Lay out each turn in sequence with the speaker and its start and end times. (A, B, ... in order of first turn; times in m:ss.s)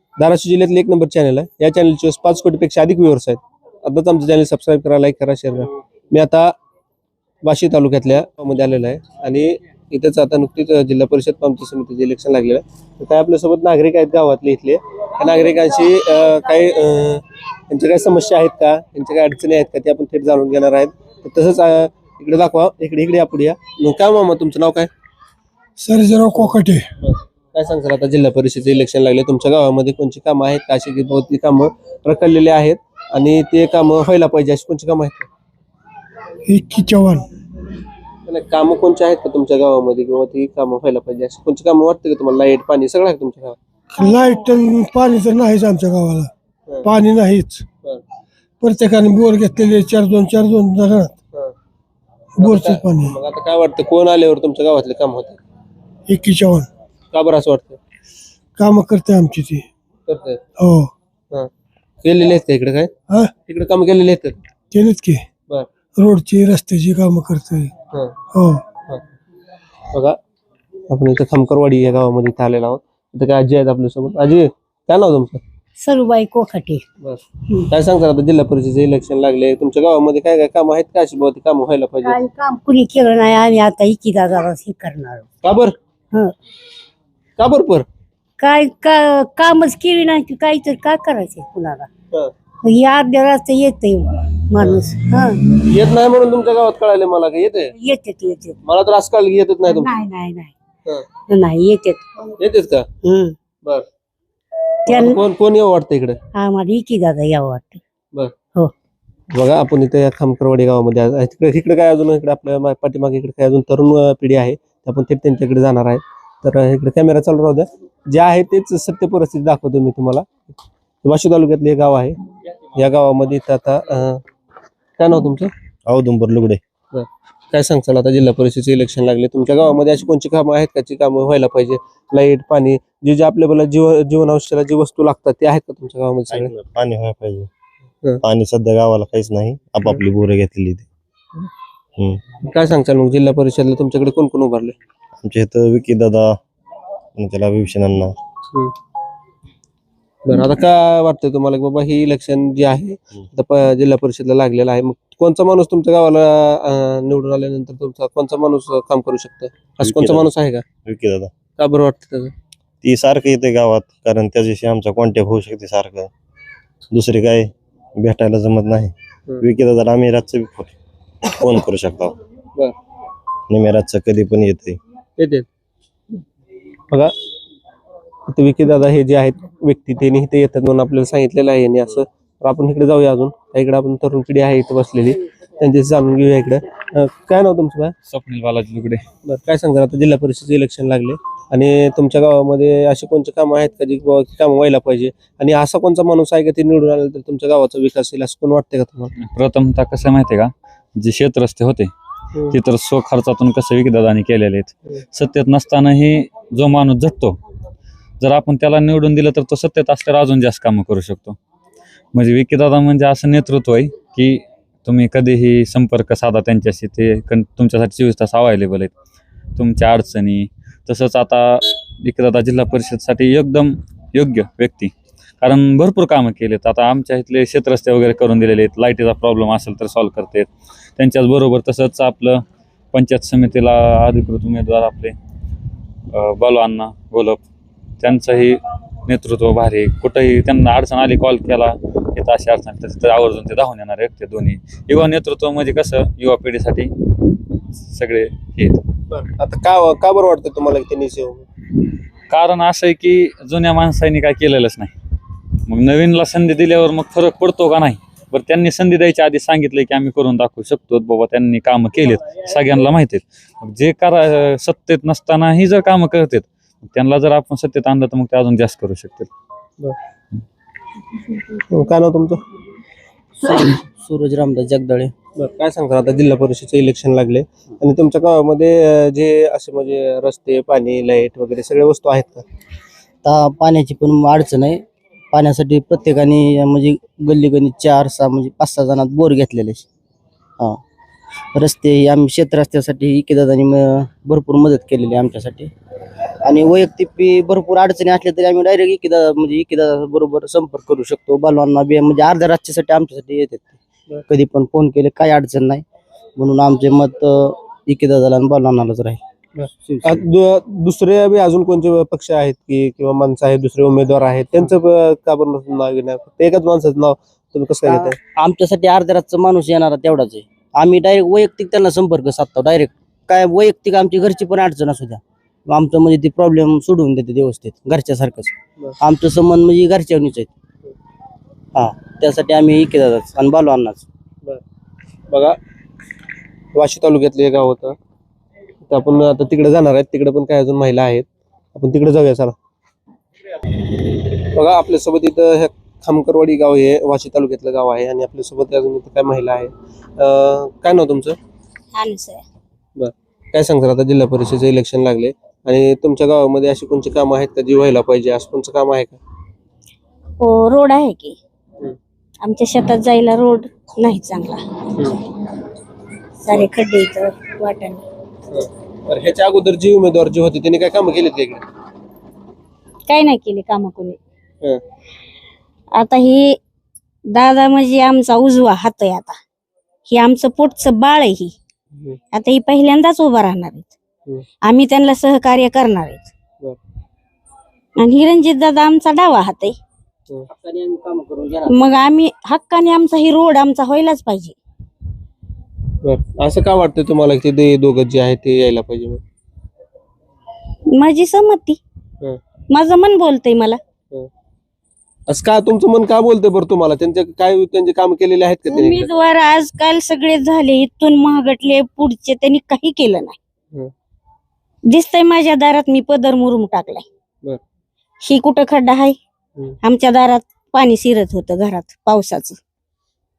0:00.2-0:06.5 A
0:07.4-0:24.9 A
0:25.8-0:26.8 B
0:26.3-0:35.3 A
0:36.4-0:37.2 B
0:38.3-0:43.6 A
0:44.0-0:46.3 B
0:46.8-0:47.7 B
0:48.6-0:51.1 B
0:52.4-0:53.1 B
0:52.4-0:55.4 A
0:56.1-0:56.7 B
0:57.1-0:57.8 A
0:58.6-0:59.6 B
1:00.1-1:00.4 A
1:00.6-1:00.9 B
1:02.0-1:02.9 A
1:03.4-1:04.4 A
1:04.7-1:05.2 B
1:06.0-1:07.7 B
1:08.3-1:08.6 B
1:09.9-1:10.2 A
1:10.9-1:15.4 A
1:15.8-1:16.8 C
1:17.0-1:22.2 A
1:22.0-1:25.2 C
1:25.4-1:25.7 A
1:27.4-1:27.8 A
1:28.4-1:31.9 C
1:32.6-1:35.4 C
1:34.6-1:34.8 A
1:35.5-1:37.7 A
1:37.8-1:38.6 C
1:38.6-1:39.9 A
1:39.7-1:40.5 C
1:41.3-1:42.0 C
1:42.4-1:42.9 A
1:43.0-1:43.4 C
1:44.8-1:46.2 A
1:44.9-1:45.2 C
1:46.3-1:47.8 C
1:49.3-2:00.3 A
2:01.0-2:02.2 A
2:02.8-2:04.2 A
2:05.0-2:05.5 A
2:05.8-2:06.6 D
2:06.9-2:16.5 A
2:16.3-2:17.5 D
2:18.2-2:20.9 D
2:22.4-2:24.7 A
2:25.2-2:26.4 D
2:27.2-2:28.2 D
2:30.2-2:40.6 A
2:39.8-2:40.2 D
2:40.8-2:41.3 D
2:41.6-2:42.3 A
2:42.8-2:46.1 D
2:46.9-2:50.7 D
2:51.3-2:52.1 D
2:53.5-2:54.8 D
2:55.2-2:55.5 A
2:58.3-3:07.9 A
3:08.1-3:09.0 E
3:09.2-3:19.1 A
3:19.2-3:21.9 E
3:22.5-3:27.4 E
3:28.2-3:31.4 E
3:32.1-3:38.9 E
3:39.6-3:52.4 E
3:52.9-3:55.1 E
3:56.1-3:57.4 E
3:58.0-4:06.9 E
4:07.8-4:08.8 E
4:09.1-4:11.4 A
4:12.3-4:14.9 E
4:15.7-4:29.3 E
4:31.5-4:32.4 A
4:33.4-4:35.1 F
4:35.4-4:42.4 A
4:43.2-4:49.8 F
4:51.5-4:55.7 F
4:56.4-5:05.8 F
5:06.4-5:09.2 F
5:09.6-5:18.2 A
5:09.9-5:10.2 F
5:17.8-5:30.5 F
5:31.7-5:34.0 F
5:35.3-5:35.6 A
5:36.7-5:38.0 A
5:38.9-5:42.5 A
5:44.4-5:51.4 A
5:51.9-5:52.4 G
5:53.0-5:59.2 A
6:00.4-6:01.4 G
6:02.4-6:04.6 G
6:06.4-6:08.0 G
6:08.5-6:11.6 A
6:13.1-6:14.2 G
6:15.9-6:16.6 G
6:17.3-6:19.4 G
6:20.1-6:21.5 G
6:21.9-6:22.2 A
6:22.3-6:24.0 G
6:24.6-6:26.3 G
6:28.0-6:29.8 G
6:30.5-6:31.8 F
6:31.7-6:34.5 G
6:36.0-6:39.2 A
6:40.9-6:41.8 G
6:42.7-6:43.8 G
6:45.3-6:49.1 A
6:48.7-6:53.4 G
6:54.9-6:57.0 G
6:58.2-6:59.2 G
6:59.8-7:02.6 G